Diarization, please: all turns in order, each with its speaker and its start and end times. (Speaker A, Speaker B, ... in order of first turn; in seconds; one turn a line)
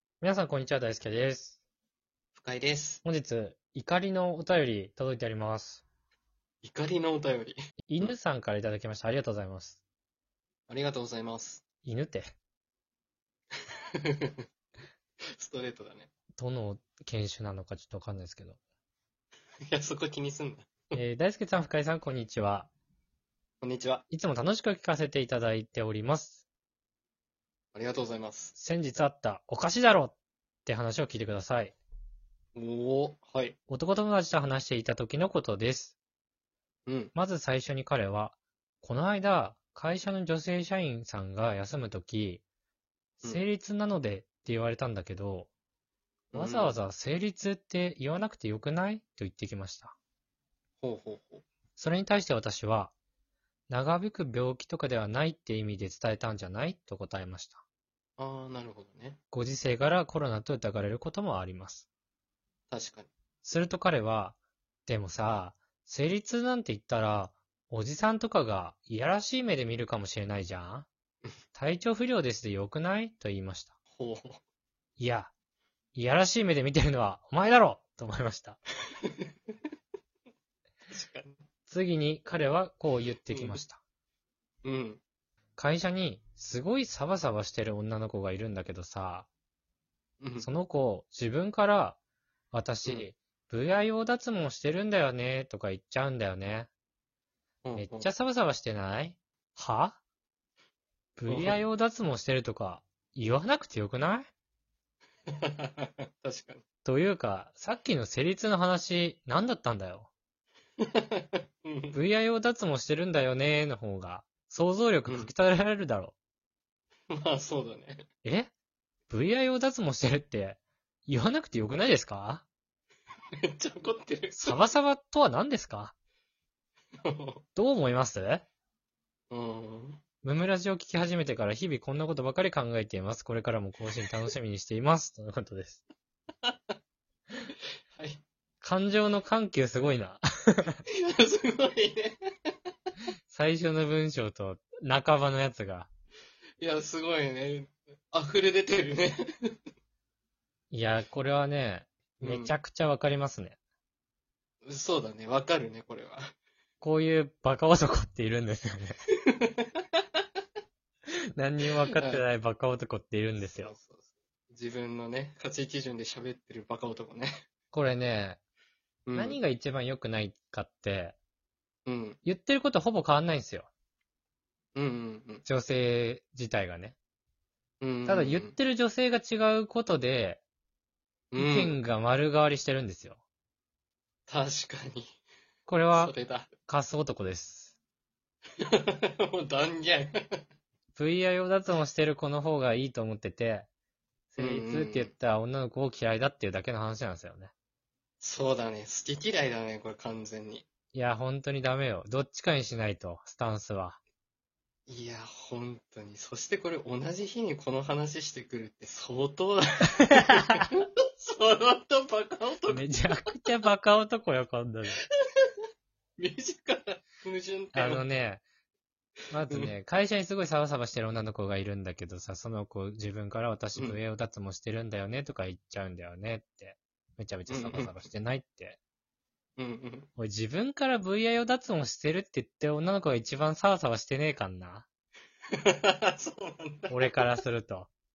Speaker A: 0.2-1.6
Speaker B: 2.3-3.0
Speaker A: 3.0-5.8
Speaker B: 6.6-8.1
Speaker A: 7.9-9.8
Speaker B: 10.7-11.6
Speaker A: 11.8-12.3
Speaker B: 14.1-14.4
Speaker B: 15.3-16.1
Speaker A: 16.4-18.6
Speaker B: 19.7-21.0
Speaker A: 20.9-22.7
Speaker B: 23.6-24.0
Speaker A: 24.1-26.4
Speaker B: 27.7-28.5
Speaker A: 28.6-31.7
Speaker B: 32.5-33.5
Speaker A: 33.7-36.0
Speaker B: 36.9-37.1
Speaker A: 37.1-42.4
Speaker A: 43.2-45.5
Speaker B: 46.3-46.8
Speaker A: 46.3-49.9
Speaker B: 50.8-51.4
Speaker A: 51.8-52.9
Speaker A: 53.7-57.6
Speaker B: 58.2-59.2
Speaker A: 59.3-61.9
Speaker B: 62.7-63.1
Speaker A: 63.4-70.9
Speaker A: 71.5-73.8
Speaker B: 73.9-74.4
Speaker A: 75.0-75.3
Speaker A: 75.9-78.6
Speaker B: 80.9-81.4
Speaker A: 81.7-83.8
Speaker B: 83.3-83.6
Speaker B: 84.6-85.0
Speaker A: 85.6-89.3
Speaker B: 90.2-90.5
Speaker A: 90.4-92.0
Speaker A: 92.5-96.7
Speaker B: 97.6-98.1
Speaker A: 97.8-100.0
Speaker A: 101.2-104.3
Speaker B: 101.3-101.6
Speaker B: 105.3-106.6
Speaker A: 106.8-110.1
Speaker B: 110.9-112.0
Speaker A: 111.9-116.2
Speaker B: 115.1-115.3
Speaker B: 117.1-118.0
Speaker A: 118.2-118.5
Speaker A: 119.1-122.4
Speaker B: 123.4-124.6
Speaker A: 124.3-125.9
Speaker B: 127.0-127.4
Speaker A: 127.5-128.4
Speaker B: 129.3-130.0
Speaker A: 130.2-135.8
Speaker B: 137.9-138.2
Speaker A: 138.6-140.8
Speaker B: 140.9-142.2
Speaker A: 143.3-145.9
Speaker B: 146.6-149.5
Speaker A: 150.7-153.6
Speaker B: 152.2-152.5
Speaker B: 154.6-156.3
Speaker A: 156.8-159.0
Speaker B: 159.4-159.6
Speaker A: 161.3-163.7
Speaker B: 161.9-162.2
Speaker B: 163.5-167.4
Speaker A: 167.7-168.4
Speaker B: 169.1-169.4
Speaker A: 169.1-171.2
Speaker B: 171.8-172.2
Speaker A: 172.2-173.7
Speaker B: 174.7-175.4
Speaker A: 175.4-176.9
Speaker B: 177.8-178.5
Speaker A: 178.1-180.4
Speaker B: 181.3-181.8
Speaker A: 181.4-183.2
Speaker B: 184.3-185.1
Speaker A: 185.7-186.1
Speaker B: 185.9-186.5
Speaker A: 186.7-187.7
Speaker B: 188.6-190.3
Speaker A: 190.9-193.7
Speaker A: 194.3-197.5
Speaker B: 194.4-195.1
Speaker B: 198.2-200.7
Speaker A: 200.9-204.0
Speaker B: 204.9-212.9
Speaker A: 210.2-210.7
Speaker A: 212.7-215.0
Speaker B: 216.2-218.1
Speaker A: 217.7-218.4
Speaker A: 219.3-228.8
Speaker B: 219.5-219.7
Speaker B: 227.5-227.9
Speaker B: 229.6-230.1
Speaker A: 230.2-234.8
Speaker B: 235.6-237.2
Speaker A: 236.9-237.9